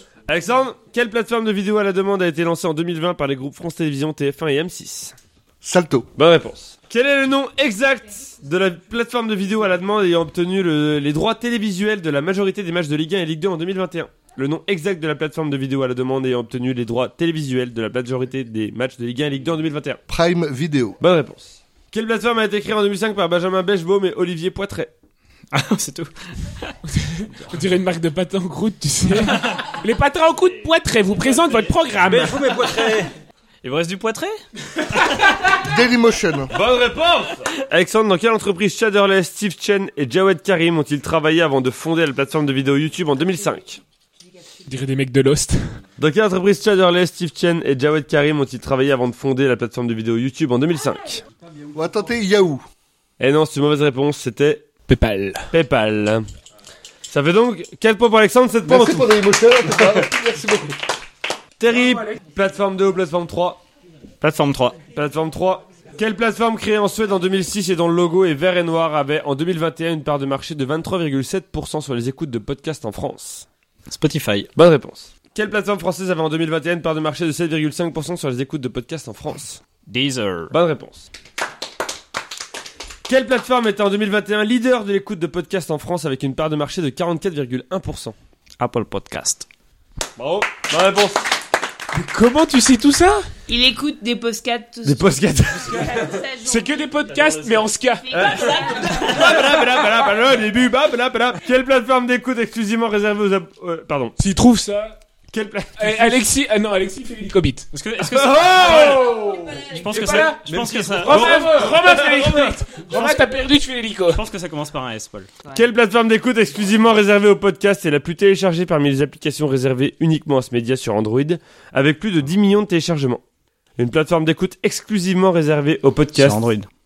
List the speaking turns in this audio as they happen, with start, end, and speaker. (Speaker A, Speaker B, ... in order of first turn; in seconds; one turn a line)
Speaker A: 0.3-5.2
Speaker B: 5.6-6.1
Speaker A: 6.2-20.0
Speaker B: 20.1-21.0
Speaker A: 21.0-24.9
Speaker C: 25.5-26.7
Speaker D: 26.9-32.5
Speaker C: 27.3-27.6
Speaker E: 32.0-33.1
Speaker C: 33.6-34.4
Speaker B: 35.6-36.5
Speaker A: 36.5-43.8
Speaker D: 44.7-45.7
Speaker A: 46.0-51.2
Speaker B: 51.7-52.6
Speaker A: 53.2-54.7
Speaker D: 54.9-55.5
Speaker A: 55.5-56.3
Speaker A: 57.1-60.1
Speaker B: 58.6-60.8
Speaker A: 61.6-63.6
Speaker D: 61.7-62.2
Speaker C: 64.2-64.8
Speaker A: 64.9-73.5
Speaker C: 73.9-74.5
Speaker A: 74.6-79.6
Speaker C: 79.9-80.5
Speaker A: 80.5-81.1
Speaker A: 83.1-88.2
Speaker C: 88.6-89.5
Speaker A: 90.2-91.2
Speaker D: 91.9-93.3
Speaker F: 93.5-97.0
Speaker A: 94.8-96.0
Speaker D: 95.7-98.4
Speaker C: 97.1-97.6
Speaker F: 98.0-99.5
Speaker A: 98.1-104.1
Speaker D: 104.2-105.0
Speaker A: 105.3-106.3
Speaker D: 105.8-107.7
Speaker C: 107.7-109.0
Speaker A: 108.0-109.2
Speaker D: 108.6-114.2
Speaker C: 109.7-111.6
Speaker E: 110.5-111.3
Speaker A: 111.1-112.6
Speaker C: 112.9-113.2
Speaker C: 114.1-115.3
Speaker A: 115.5-123.2
Speaker A: 123.8-126.4
Speaker C: 126.2-126.7